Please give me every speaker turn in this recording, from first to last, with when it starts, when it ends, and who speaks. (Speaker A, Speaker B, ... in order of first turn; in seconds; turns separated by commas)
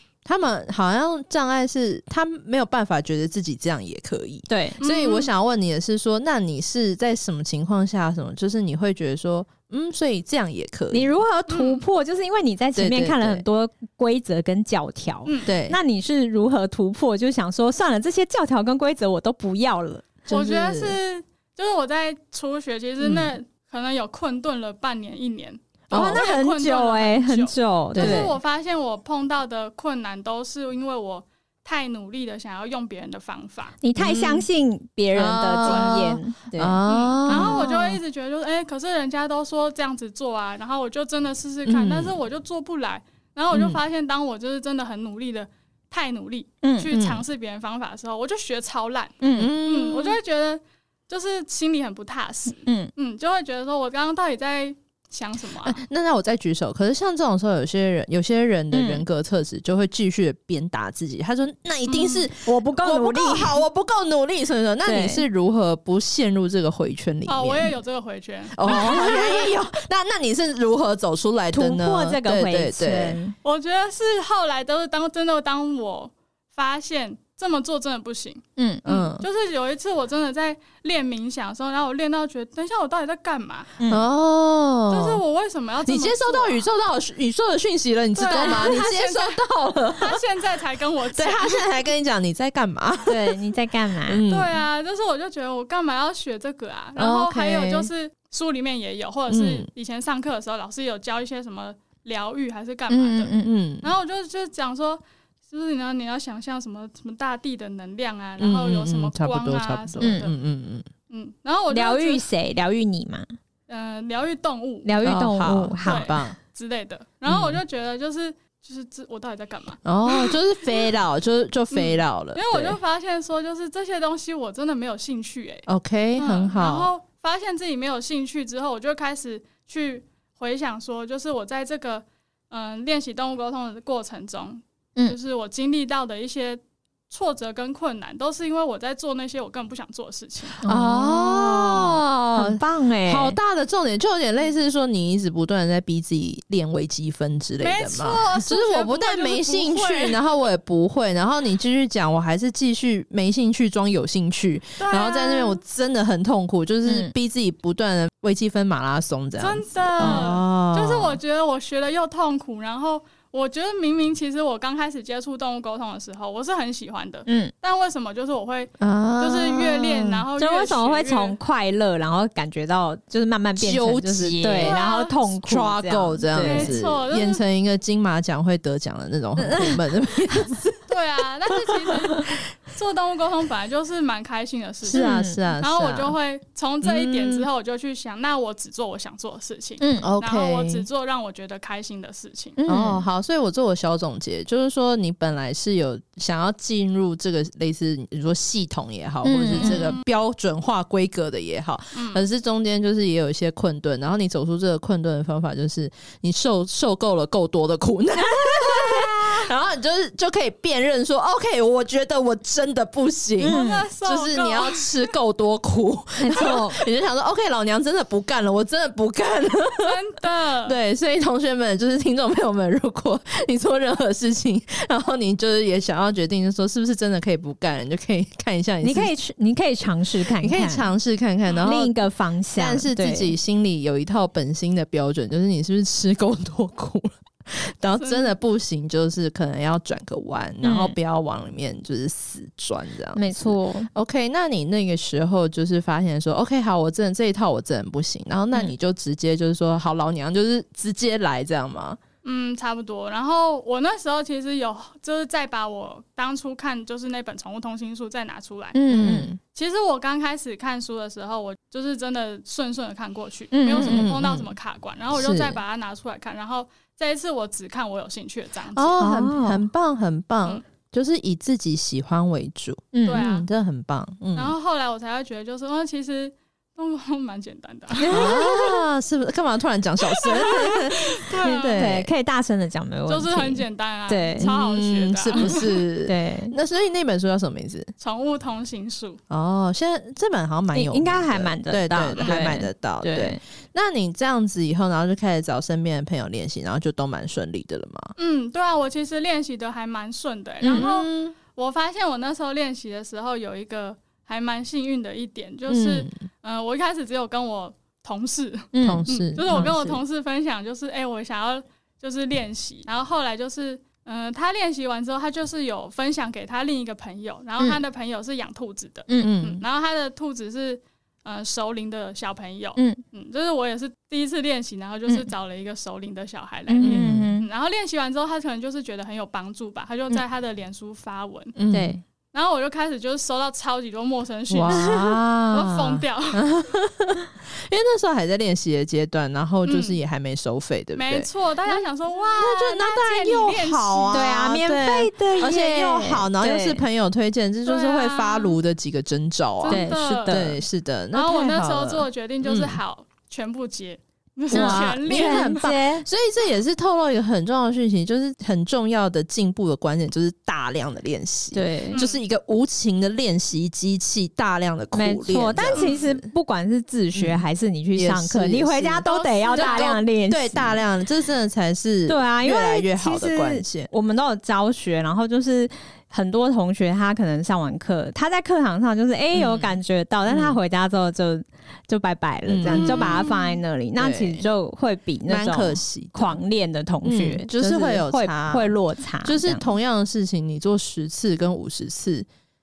Speaker A: 0.2-11.2, Speaker B: 4.5-4.8, Speaker C: 4.8-5.3, Speaker B: 10.9-20.1, Speaker C: 11.5-11.8, Speaker A: 12.7-13.4, Speaker A: 15.5-15.8, Speaker A: 20.3-21.0, Speaker C: 20.3-33.8, Speaker A: 23.0-23.3, Speaker A: 25.9-26.2, Speaker B: 25.9-28.3, Speaker A: 27.9-28.3, Speaker B: 33.8-37.6, Speaker A: 34.0-34.5, Speaker A: 35.1-38.0, Speaker C: 35.6-36.0, Speaker C: 36.9-55.8, Speaker A: 41.6-42.2, Speaker A: 43.5-43.8, Speaker B: 46.6-46.9, Speaker A: 46.9-47.2, Speaker B: 49.2-49.5, Speaker A: 49.3-50.2, Speaker B: 52.6-52.9, Speaker A: 55.6-67.7, Speaker B: 58.7-59.0, Speaker C: 61.9-62.2, Speaker B: 62.4-63.6, Speaker B: 64.8-65.2, Speaker C: 67.3-69.5, Speaker A: 68.5-73.2, Speaker B: 71.5-73.3, Speaker C: 73.4-83.7, Speaker B: 78.6-78.8, Speaker A: 78.8-79.2, Speaker B: 83.8-84.0, Speaker A: 83.9-85.2, Speaker C: 84.9-86.6, Speaker A: 85.8-90.2, Speaker C: 88.1-89.4, Speaker B: 88.3-88.8, Speaker C: 90.0-91.7, Speaker A: 91.1-93.4, Speaker B: 93.1-94.2, Speaker A: 94.0-94.6, Speaker C: 94.3-110.3, Speaker A: 97.0-97.9, Speaker A: 99.3-99.7, Speaker B: 102.9-103.5, Speaker A: 103.4-103.9, Speaker A: 108.4-110.8, Speaker B: 110.0-110.3, Speaker C: 111.1-112.2, Speaker B: 111.7-113.2, Speaker C: 113.7-114.9, Speaker B: 114.8-116.1, Speaker A: 115.0-116.4, Speaker C: 115.8-120.9, Speaker A: 117.3-117.6, Speaker A: 119.8-122.8, Speaker C: 121.7-125.7, Speaker A: 125.7-126.9, Speaker C: 126.2-140.6, Speaker B: 140.6-143.4, Speaker A: 140.6-161.2, Speaker C: 147.6-150.2, Speaker C: 154.8-155.6, Speaker B: 156.8-157.1, Speaker C: 159.4-171.4, Speaker B: 167.3-167.5, Speaker A: 168.8-170.2, Speaker B: 170.4-176.7, Speaker A: 173.6-174.8, Speaker C: 174.6-175.2, Speaker A: 175.4-180.9, Speaker C: 176.4-177.4, Speaker B: 179.4-179.8, Speaker C: 180.9-192.6, Speaker A: 181.7-182.4, Speaker A: 184.8-186.1, Speaker B: 184.9-185.4, Speaker A: 186.8-187.5, Speaker B: 189.8-190.1, Speaker A: 190.0-190.8, Speaker B: 192.6-193.0, Speaker A: 192.7-219.9, Speaker B: 199.2-199.9, Speaker C: 199.6-200.0, Speaker C: 201.9-202.2, Speaker B: 208.2-209.5, Speaker C: 213.4-215.1, Speaker B: 213.4-213.9, Speaker B: 216.2-216.8, Speaker C: 219.8-220.8, Speaker A: 220.6-229.1, Speaker B: 228.8-230.8, Speaker A: 230.3-232.0, Speaker B: 231.6-233.3, Speaker A: 232.5-252.0, Speaker C: 238.0-238.3, Speaker B: 240.6-240.9, Speaker B: 243.1-243.9, Speaker C: 252.2-258.8, Speaker B: 258.7-259.3, Speaker A: 258.9-259.4, Speaker C: 259.5-269.0, Speaker B: 263.5-264.1, Speaker A: 263.8-264.5, Speaker A: 265.1-265.6, Speaker A: 268.7-274.5, Speaker B: 269.0-269.6, Speaker B: 272.9-273.2, Speaker C: 273.1-273.5, Speaker C: 274.3-278.5, Speaker B: 278.0-278.7, Speaker A: 278.1-282.1, Speaker C: 280.1-281.8, Speaker B: 281.5-284.5, Speaker C: 283.1-285.6, Speaker A: 284.4-287.9, Speaker B: 285.4-286.5, Speaker C: 288.0-289.2, Speaker A: 289.3-298.1, Speaker B: 290.7-293.4, Speaker C: 292.2-292.5, Speaker C: 298.2-331.5, Speaker A: 300.6-301.4, Speaker A: 305.7-306.2, Speaker B: 308.7-309.7, Speaker A: 308.8-310.0, Speaker B: 319.1-319.4, Speaker A: 319.2-319.6, Speaker B: 322.8-323.0, Speaker B: 326.7-327.5, Speaker A: 326.8-327.3, Speaker A: 331.6-332.0, Speaker B: 331.7-332.0, Speaker C: 332.3-336.5, Speaker A: 334.5-352.8, Speaker C: 339.6-340.0, Speaker C: 340.9-344.3, Speaker B: 344.1-346.8, Speaker C: 347.6-348.6, Speaker C: 349.6-350.4, Speaker B: 349.7-350.6, Speaker C: 351.1-355.7, Speaker A: 354.5-366.3, Speaker B: 354.5-356.1, Speaker B: 361.5-362.0, Speaker C: 361.9-362.2, Speaker B: 364.9-370.8, Speaker C: 365.7-366.1, Speaker A: 367.1-367.4, Speaker A: 367.9-373.9, Speaker C: 369.0-369.9, Speaker B: 372.1-389.7, Speaker A: 379.3-380.6, Speaker A: 382.5-383.3, Speaker C: 382.6-383.6, Speaker A: 384.0-384.5, Speaker A: 385.3-386.4, Speaker A: 387.0-392.3